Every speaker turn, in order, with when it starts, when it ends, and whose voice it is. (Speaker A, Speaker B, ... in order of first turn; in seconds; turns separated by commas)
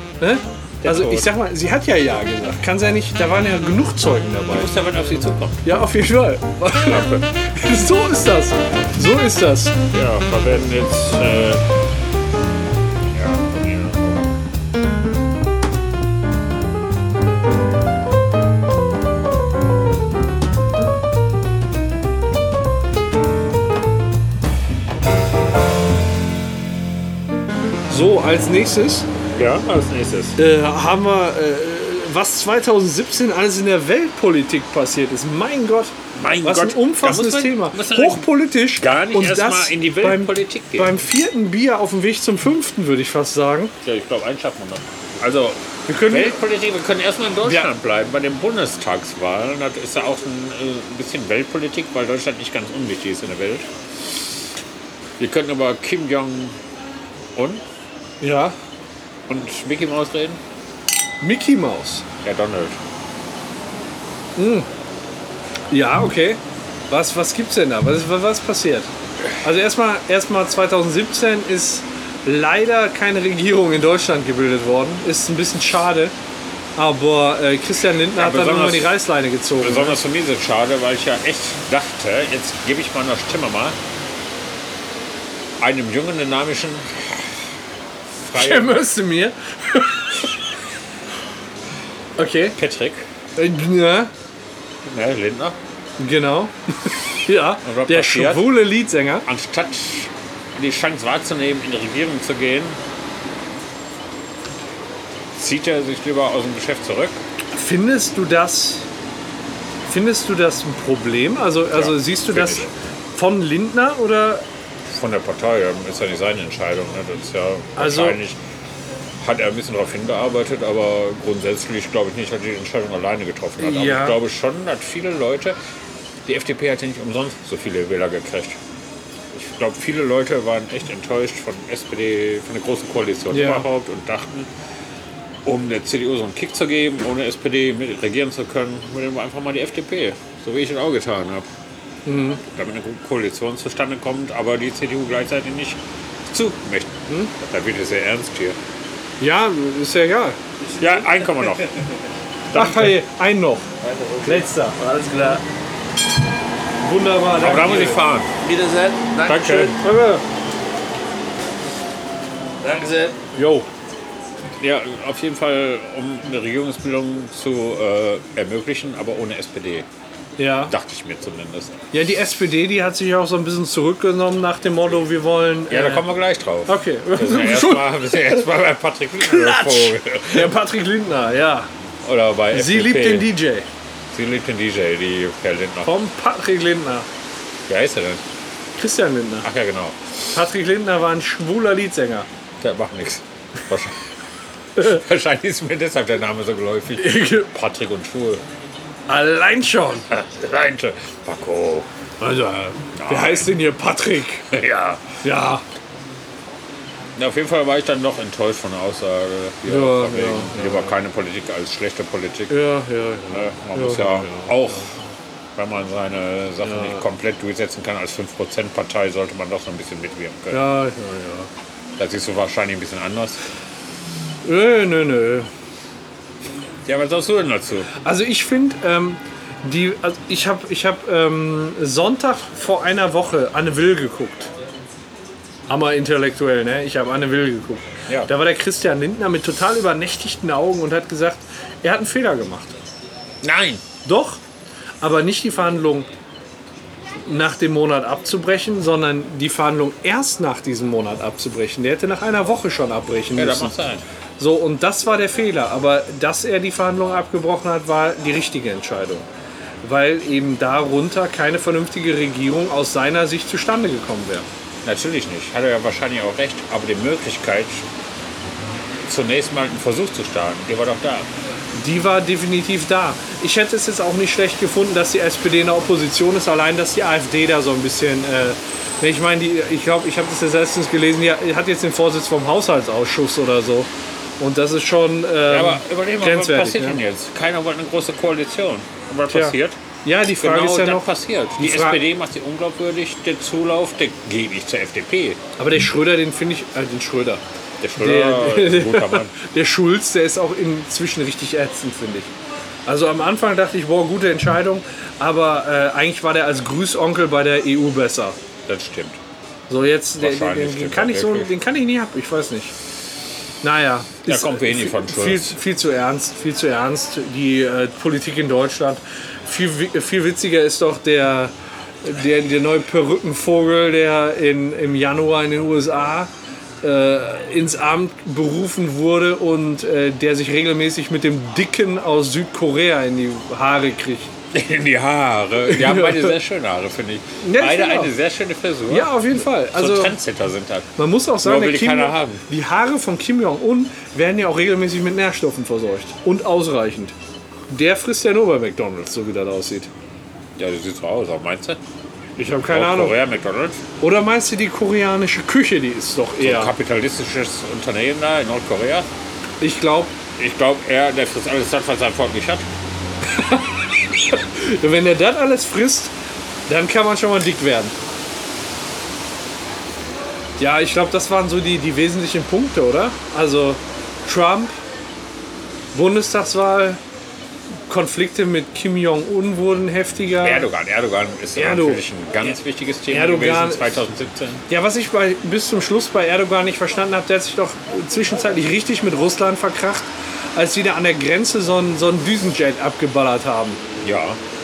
Speaker A: 0.2-4.7, Speaker B: 0.8-1.3, Speaker B: 4.5-5.6, Speaker A: 5.6-9.8, Speaker B: 6.8-7.2, Speaker B: 9.9-11.6, Speaker B: 13.1-14.3, Speaker A: 27.9-29.1, Speaker B: 29.3-30.4, Speaker A: 30.4-43.7, Speaker B: 36.1-41.0, Speaker B: 43.8-53.7, Speaker A: 45.9-46.4, Speaker A: 47.4-47.7, Speaker B: 55.2-56.6, Speaker B: 57.3-57.6, Speaker A: 58.2-58.5, Speaker B: 59.3-60.4, Speaker A: 61.2-62.0, Speaker B: 62.2-62.8, Speaker A: 64.3-64.7, Speaker A: 65.7-68.9, Speaker A: 69.4-76.1, Speaker A: 76.8-80.0, Speaker B: 78.1-79.0, Speaker B: 79.6-83.8, Speaker B: 85.6-87.3, Speaker B: 88.2-88.8, Speaker A: 88.3-90.2, Speaker A: 92.2-92.6, Speaker B: 92.5-93.0, Speaker A: 93.4-94.1, Speaker B: 94.8-95.6, Speaker A: 96.0-99.2, Speaker B: 97.6-98.6, Speaker B: 99.2-102.8, Speaker B: 105.3-107.2, Speaker A: 107.5-108.9, Speaker A: 109.8-114.4, Speaker B: 111.7-112.7, Speaker B: 114.9-118.4, Speaker A: 117.8-118.2, Speaker B: 119.2-125.5, Speaker A: 123.6-124.2, Speaker B: 126.2-128.6, Speaker B: 129.3-134.5, Speaker A: 133.3-133.7, Speaker B: 135.4-141.4, Speaker A: 142.0-142.4, Speaker B: 142.4-148.6, Speaker A: 149.2-150.4, Speaker C: 150.6-151.8, Speaker B: 150.8-151.8, Speaker B: 152.5-152.9, Speaker A: 152.5-153.7, Speaker C: 153.8-155.4, Speaker A: 154.2-154.8, Speaker A: 156.8-158.0, Speaker B: 157.3-158.3, Speaker C: 158.4-159.7, Speaker B: 159.2-159.8, Speaker A: 159.3-160.2, Speaker C: 162.6-163.2, Speaker A: 163.3-163.7, Speaker B: 164.6-169.9, Speaker A: 170.4-170.7, Speaker B: 170.7-171.8, Speaker A: 171.9-176.0, Speaker B: 175.7-180.6, Speaker A: 176.7-178.5, Speaker A: 179.2-181.7, Speaker B: 182.0-183.3, Speaker A: 182.5-183.7, Speaker B: 184.1-185.9, Speaker A: 185.8-187.1, Speaker B: 187.7-188.2, Speaker A: 188.8-189.5, Speaker B: 189.4-190.1, Speaker A: 190.3-192.3, Speaker B: 192.6-194.0, Speaker B: 194.8-198.4, Speaker A: 196.9-197.5, Speaker A: 199.1-200.1, Speaker B: 200.1-201.9, Speaker A: 202.2-204.5, Speaker B: 202.9-203.5, Speaker B: 204.5-205.0, Speaker A: 205.2-205.6, Speaker B: 207.2-212.6, Speaker A: 209.7-210.9, Speaker A: 212.5-214.8, Speaker B: 213.3-214.9, Speaker B: 215.6-220.6, Speaker A: 216.6-217.0, Speaker A: 220.5-221.5, Speaker B: 222.0-223.4, Speaker A: 224.4-225.5, Speaker B: 226.8-227.9, Speaker A: 228.0-234.5, Speaker A: 235.7-242.8, Speaker B: 243.4-243.8, Speaker A: 244.0-244.4, Speaker A: 245.0-246.1, Speaker A: 247.2-253.8, Speaker B: 253.3-254.0, Speaker A: 254.4-259.2, Speaker A: 259.8-264.4, Speaker B: 264.8-267.8, Speaker B: 269.0-271.3, Speaker A: 271.7-283.9, Speaker A: 284.4-287.0, Speaker B: 285.4-289.8, Speaker A: 289.3-292.0, Speaker B: 290.4-295.4, Speaker A: 295.6-297.4, Speaker B: 297.8-299.3, Speaker A: 298.0-302.3, Speaker A: 302.9-308.4, Speaker B: 308.7-309.2, Speaker A: 309.7-312.7, Speaker B: 310.2-311.5, Speaker A: 313.6-326.3, Speaker B: 314.2-315.5, Speaker A: 326.8-334.3, Speaker B: 334.5-342.4, Speaker A: 335.7-336.4, Speaker A: 337.4-338.1, Speaker A: 338.9-340.2, Speaker A: 340.9-347.1, Speaker A: 347.7-349.9, Speaker B: 350.6-351.8, Speaker A: 352.4-353.2, Speaker B: 352.7-353.8, Speaker A: 354.0-356.7, Speaker B: 356.4-359.1, Speaker A: 359.6-360.1, Speaker B: 360.4-362.7, Speaker A: 363.3-366.1, Speaker A: 366.7-367.9, Speaker A: 370.6-374.8, Speaker A: 375.9-377.0, Speaker A: 377.9-380.7, Speaker B: 380.4-384.6, Speaker A: 381.5-382.0, Speaker A: 383.1-383.9, Speaker A: 384.7-393.8, Speaker B: 394.0-394.4